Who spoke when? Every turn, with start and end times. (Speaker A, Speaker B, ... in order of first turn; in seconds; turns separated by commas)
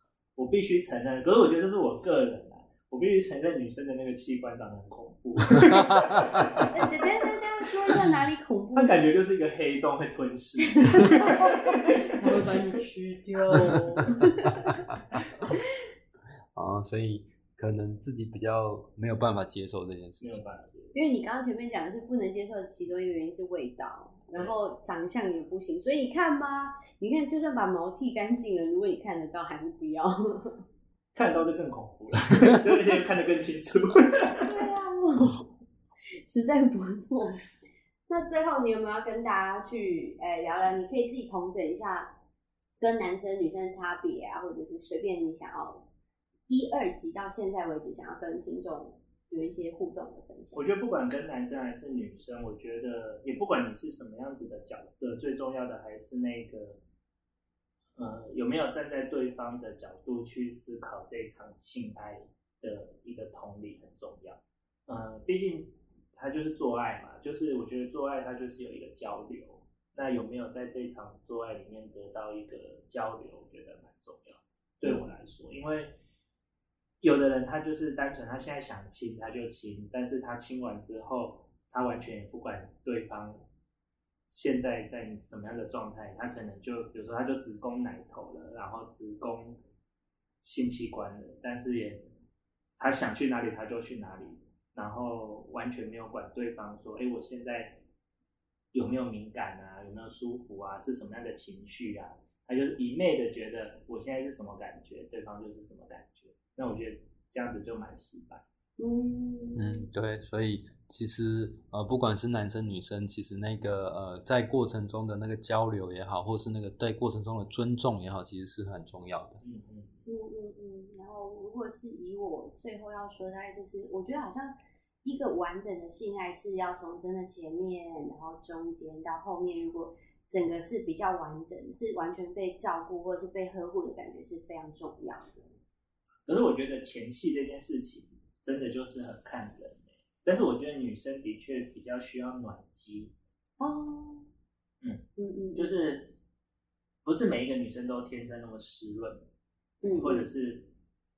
Speaker A: 0.3-6.8, Speaker B: 5.6-6.6, Speaker C: 6.7-9.1, Speaker A: 8.7-12.7, Speaker C: 10.7-14.8, Speaker B: 13.6-14.5, Speaker B: 16.5-20.4, Speaker A: 20.2-21.0, Speaker C: 20.9-30.6, Speaker A: 31.1-34.5, Speaker C: 34.4-35.5, Speaker C: 36.1-37.5, Speaker C: 38.1-42.1, Speaker C: 42.8-45.9, Speaker C: 46.5-50.6, Speaker A: 50.5-56.8, Speaker A: 58.0-76.0, Speaker A: 77.0-83.4, Speaker A: 84.3-89.6, Speaker A: 90.4-92.0, Speaker A: 92.8-97.8, Speaker A: 98.7-108.4, Speaker C: 108.8-109.9, Speaker B: 109.5-119.4, Speaker A: 119.4-120.0, Speaker C: 120.0-135.4, Speaker A: 136.2-143.1, Speaker C: 143.6-144.3, Speaker C: 145.2-145.8, Speaker A: 145.5-146.1, Speaker A: 147.0-149.3, Speaker C: 149.8-150.3, Speaker A: 149.9-150.7